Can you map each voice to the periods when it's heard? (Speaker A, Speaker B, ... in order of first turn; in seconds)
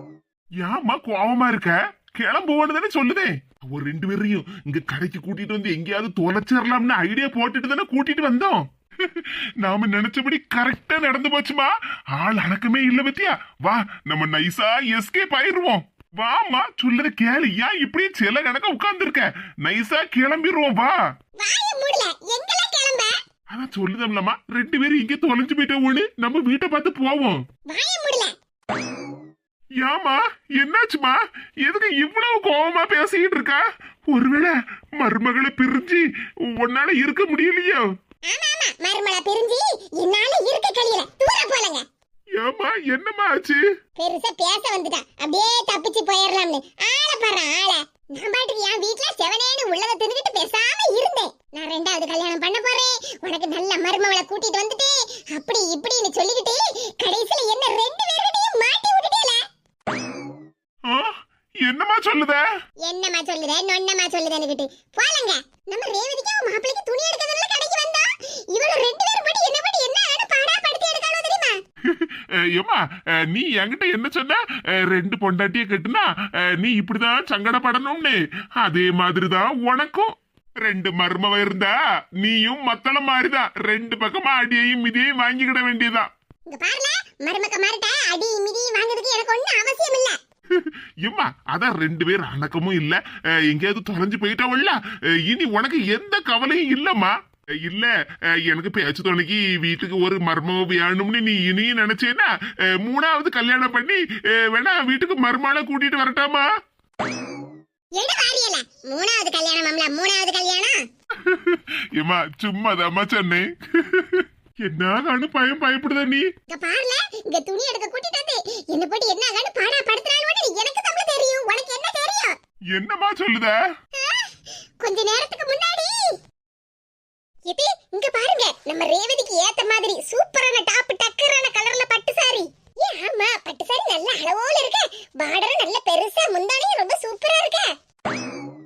Speaker A: 0.6-20.9, 23.5-27.4, 29.8-36.0, 36.5-37.8, 42.4-43.6, 60.9-62.4, 71.9-86.1, 90.6-97.9, 98.4-106.5, 111.2-116.3, 122.7-123.5
Speaker B: 21.4-23.1, 27.7-28.3, 38.3-41.8, 44.0-59.5, 62.8-71.6, 86.5-90.2, 108.0-110.8, 116.5-122.3, 124.0-124.3, 124.8-126.2, 127.5-137.7